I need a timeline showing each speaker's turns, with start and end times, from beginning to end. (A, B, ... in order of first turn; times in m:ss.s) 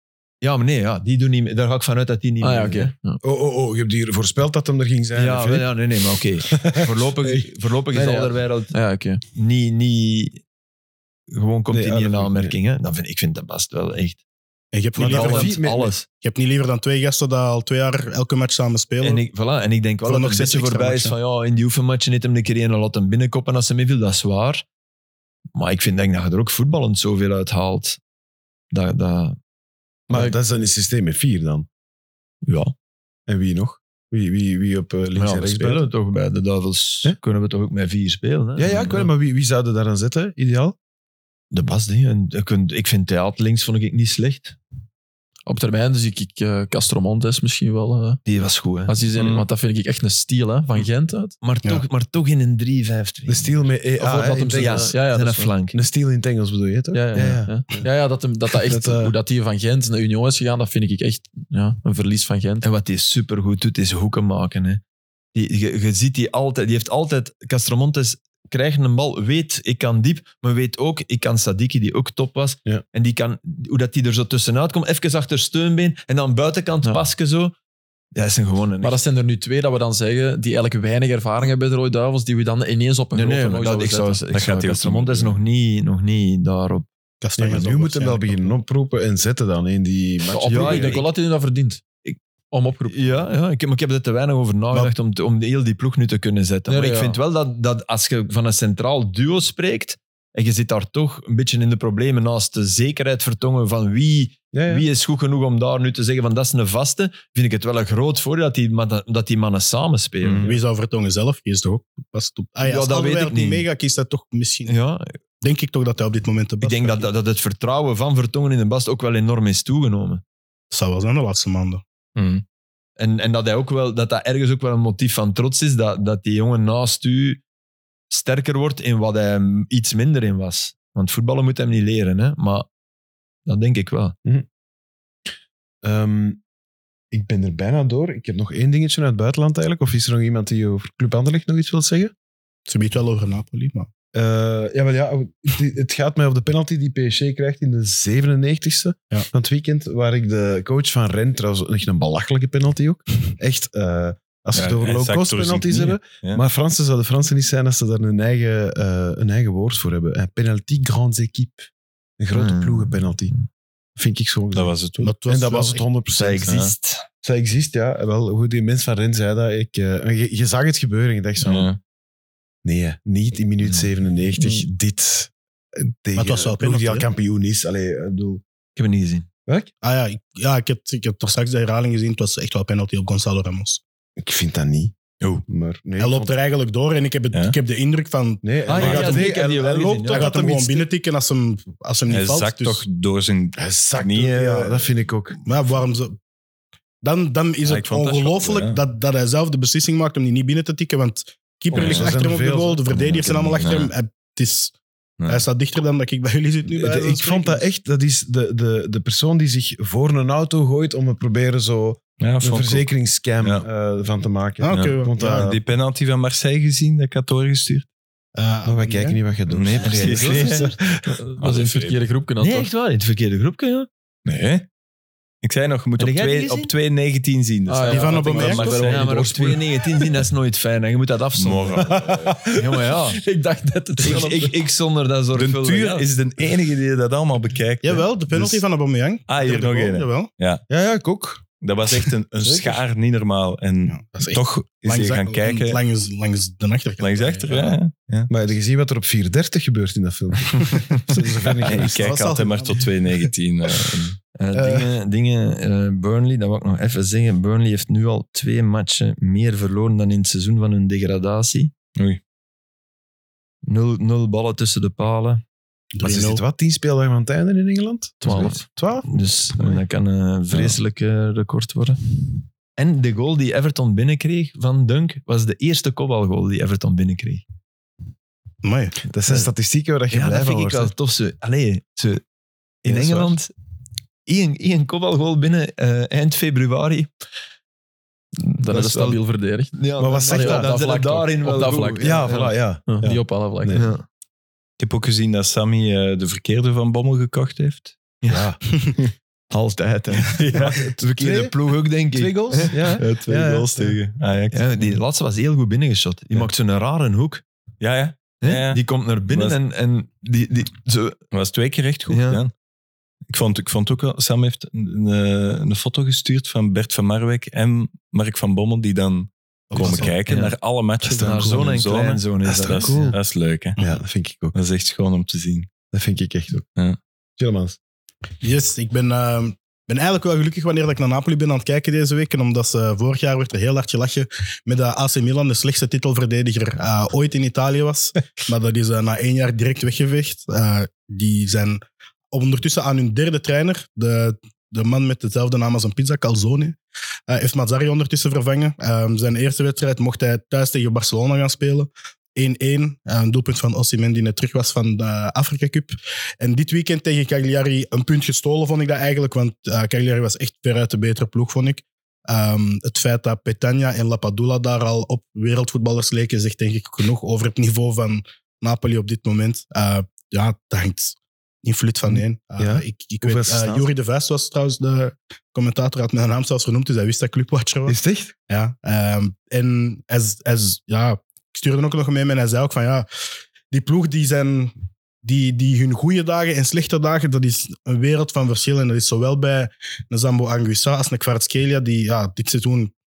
0:00.4-0:02.9 A
0:02.4-0:03.2 B
0:03.2-0:05.7 C
0:05.1-0:08.8 A
0:06.5-0:07.4 C
0:07.9-0:09.2 B
0:09.3-0:10.4 A
0:11.3-0:14.2 A
0:11.7-0:12.6 C
0:14.7-0:15.5 D
0:15.0-0:15.9 C
0:15.0-0:16.0 A
0:16.2-0:19.2 D
0:19.0-0:24.6 A
0:20.0-0:21.1 D
0:25.5-0:28.0 A
0:28.7-0:29.4 A
0:30.1-0:31.7 C
0:32.4-0:32.7 A
0:33.3-0:35.8 C
0:35.2-0:39.1 A
0:38.6-0:40.8 C
0:41.5-0:44.6 A
0:45.4-0:48.2 B
0:48.2-0:49.0 A
0:48.9-0:51.4 B
0:49.1-0:49.5 E
0:51.4-0:53.6 A
0:53.3-0:55.0 C
0:54.0-0:55.5 B
0:54.5-0:55.8 A
0:55.7-0:57.8 C
0:56.9-1:02.6 B
0:58.6-0:59.1 C
1:02.6-1:04.8 A
1:05.3-1:17.5 A
1:18.1-1:19.0 A
1:18.8-1:24.3 B
1:23.1-1:26.8 A
1:24.3-1:25.4 E
1:27.2-1:28.5 D
1:27.4-1:31.0 C
1:30.3-1:31.8 B
1:30.4-1:31.1 A
1:32.5-1:33.2 B
1:32.8-1:50.5 A
1:36.7-1:37.2 B
1:44.5-1:44.8 C
1:50.2-1:50.5 E
1:50.4-1:54.7 D
1:52.6-1:53.6 A
1:54.6-1:55.1 A
1:55.4-1:57.1 D
1:56.6-2:00.2 A
2:00.7-2:01.8 D
2:02.2-2:02.4 E
2:03.0-2:07.4 A
2:08.1-2:12.7 A
2:13.4-2:14.1 A
2:15.8-2:16.4 C
2:17.1-2:22.1 C
2:22.7-2:23.9 D
2:24.1-2:43.3 C
2:34.5-2:36.4 E
2:42.3-2:43.4 A
2:44.0-2:46.7 C
2:44.5-2:45.1 E
2:45.0-2:45.8 D
2:46.1-2:47.0 A
2:46.5-2:46.7 E
2:47.2-2:51.7 C
2:51.4-2:51.8 E
2:52.6-2:58.4 C
2:56.2-2:57.1 D
2:58.7-2:59.3 A
2:59.8-3:03.8 D
3:04.2-3:04.9 C
3:05.4-3:06.3 C
3:06.0-3:12.8 D
3:08.4-3:10.9 C
3:08.7-3:10.3 A
3:12.1-3:14.9 E
3:13.6-3:15.4 C
3:15.4-3:16.2 D
3:17.0-3:24.7 D
3:17.6-3:18.8 E
3:21.7-3:22.2 E
3:21.7-3:23.7 C
3:23.5-3:23.9 E
3:25.2-3:25.4 E
3:25.3-3:27.6 D
3:26.7-3:35.6 C
3:32.2-3:32.9 E
3:34.6-3:35.4 D
3:34.7-3:37.9 E
3:38.4-3:39.2 D
3:38.6-3:40.9 C
3:39.5-3:40.7 E
3:39.8-3:40.8 A
3:41.3-3:42.7 B
3:41.4-3:42.0 E
3:42.4-3:43.9 A
3:44.2-3:44.6 E
3:45.4-3:49.1 E
3:46.0-3:46.7 A
3:47.7-3:49.6 B
3:47.9-3:48.9 D
3:48.8-3:51.9 A
3:51.4-3:52.4 E
3:51.8-3:52.7 C
3:52.5-3:53.2 A
3:53.1-3:54.5 B
3:54.0-3:56.1 A
3:55.3-3:58.6 E
3:57.8-4:00.3 D
3:59.3-4:00.6 E
4:00.7-4:02.8 C
4:01.6-4:05.8 E
4:03.9-4:07.8 D
4:07.0-4:08.3 E
4:08.3-4:12.0 C
4:11.6-4:14.2 E
4:11.6-4:12.9 D
4:14.3-4:21.7 A
4:14.5-4:14.9 C
4:23.6-4:25.4 A
4:25.9-4:26.4 D
4:26.0-4:29.1 C
4:28.2-4:32.0 A
4:28.2-4:28.6 B
4:32.8-4:37.4 A
4:38.6-4:39.0 D
4:39.1-4:40.9 C
4:40.1-4:42.2 A
4:42.8-4:43.5 A
4:42.8-4:43.4 C
4:44.2-4:47.1 A
4:48.4-4:49.2 A
4:48.6-4:53.8 B
4:49.7-4:52.5 A
4:50.0-4:50.7 C
4:52.0-4:53.9 C
4:53.7-4:54.0 A
4:54.8-4:58.0 E
4:58.2-4:58.5 A
4:58.3-4:58.6 C
4:59.5-5:03.0 A
5:00.5-5:01.6 C
5:02.1-5:04.0 C
5:03.0-5:04.9 E
5:04.5-5:07.4 A
5:07.8-5:09.6 E
5:08.4-5:11.2 A
5:11.3-5:12.5 E
5:12.1-5:12.4 A
5:13.3-5:23.8 E
5:19.7-5:20.2 D
5:19.9-5:20.6 A
5:21.0-5:21.7 C
5:21.2-5:23.1 A
5:22.4-5:23.2 C
5:23.8-5:24.6 C
5:24.5-5:25.7 E
5:25.9-5:26.6 C
5:27.4-5:27.8 C
5:28.4-5:41.8 D
5:42.3-5:46.8 D
5:47.3-6:18.0 D
6:12.0-6:13.9 C
6:17.9-6:18.3 C
6:18.5-6:23.1 D
6:23.7-6:32.9 D